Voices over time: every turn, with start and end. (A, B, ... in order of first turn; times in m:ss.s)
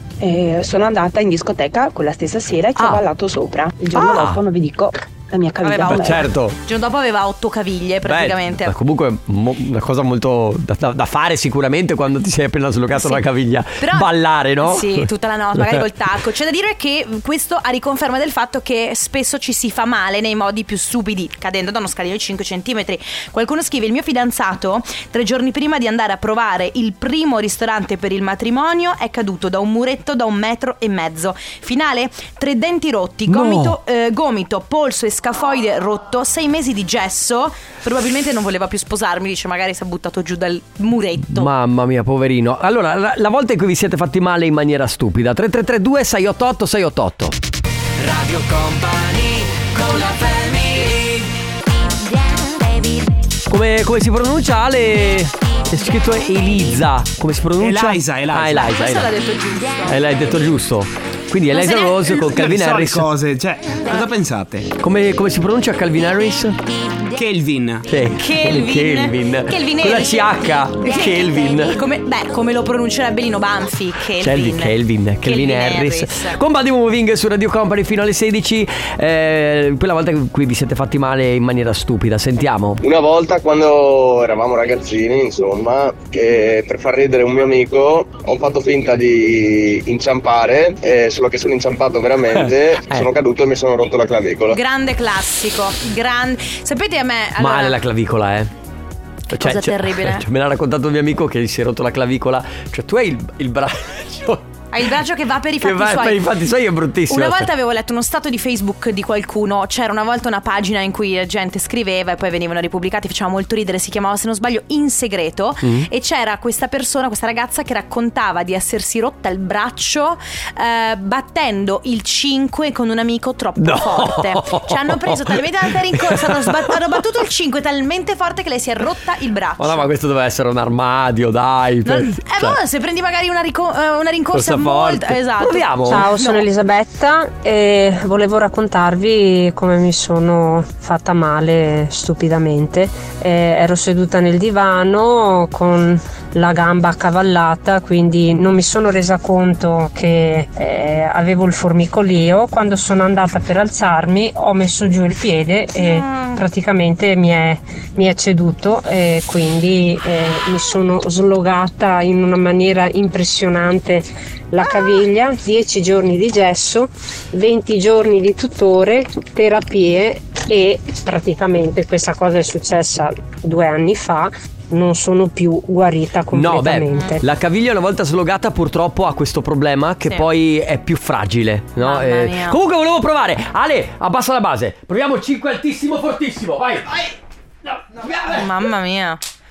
0:00.2-0:06.3 A
0:02.8-0:03.0 B
0:03.9-0:04.4 B
0:05.6-0:08.7 C
0:05.8-0:06.6 B
0:08.0-0:15.8 B
0:12.9-0:13.2 C
0:13.8-0:14.1 C
0:14.6-0:41.5 C
0:33.3-0:33.8 B
0:41.3-0:47.4 B
0:48.2-0:50.9 B
0:53.5-0:59.1 B
0:57.6-0:58.6 D
0:58.4-1:00.0 C
0:59.9-1:03.1 B
1:01.5-1:02.2 C
1:02.2-1:04.7 D
1:04.8-1:06.6 B
1:07.1-1:07.9 D
1:07.9-1:11.7 B
1:08.1-1:16.4 C
1:14.2-1:22.8 B
1:22.8-1:34.5 E
1:32.3-1:33.1 B
1:34.5-1:37.8 C
1:37.4-1:38.5 B
1:39.3-1:44.4 B
1:39.3-1:40.2 C
1:44.7-1:46.2 C
1:45.6-1:47.5 B
1:47.1-2:09.9 C
1:55.6-1:55.9 B
2:03.6-2:06.8 B
2:09.6-2:12.6 B
2:11.8-2:16.4 C
2:14.3-2:16.0 B
2:15.9-2:57.2 F
2:35.8-2:36.4 C
2:56.3-3:07.0 B
3:01.8-3:02.6 C
3:07.9-3:08.4 B
3:08.3-3:09.2 C